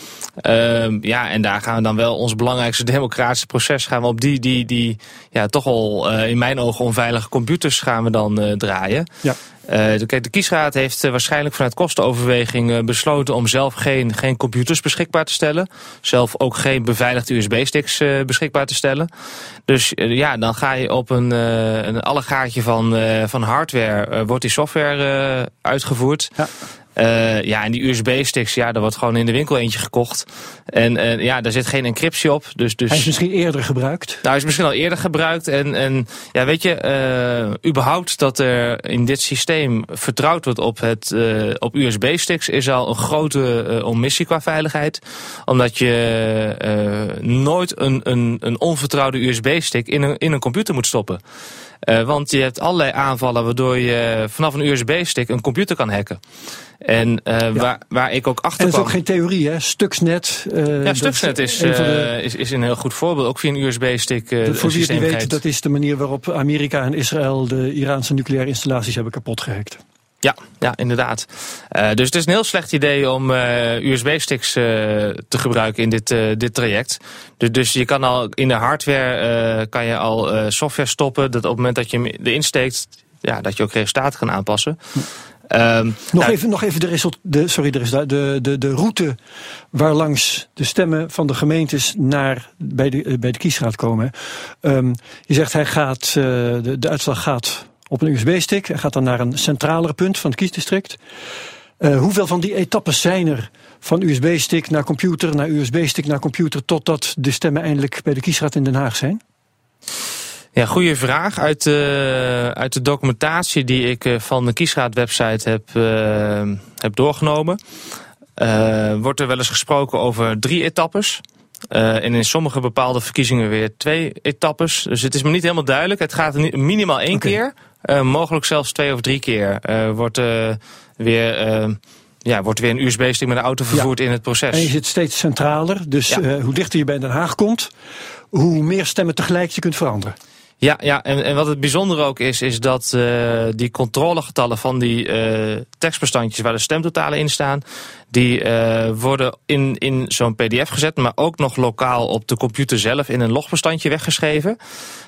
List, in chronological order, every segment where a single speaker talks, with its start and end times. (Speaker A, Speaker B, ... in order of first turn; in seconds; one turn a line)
Speaker A: 0.4-9.1
Speaker A: 9.7-19.1
Speaker A: 19.7-26.4
Speaker A: 27.0-33.1
Speaker B: 32.9-34.2
Speaker A: 34.2-51.2
Speaker A: 51.9-56.2
Speaker A: 56.8-59.0
Speaker B: 58.6-62.1
Speaker A: 60.9-65.4
Speaker B: 64.4-69.8
Speaker A: 70.2-84.8
Speaker A: 85.5-86.3
Speaker B: 86.1-89.2
Speaker B: 89.7-101.0
Speaker B: 101.8-109.2
Speaker A: 110.5-117.6
Speaker A: 118.4-134.7
Speaker B: 127.1-127.4
Speaker B: 134.5-137.7
Speaker B: 138.3-140.2
Speaker A: 140.6-154.6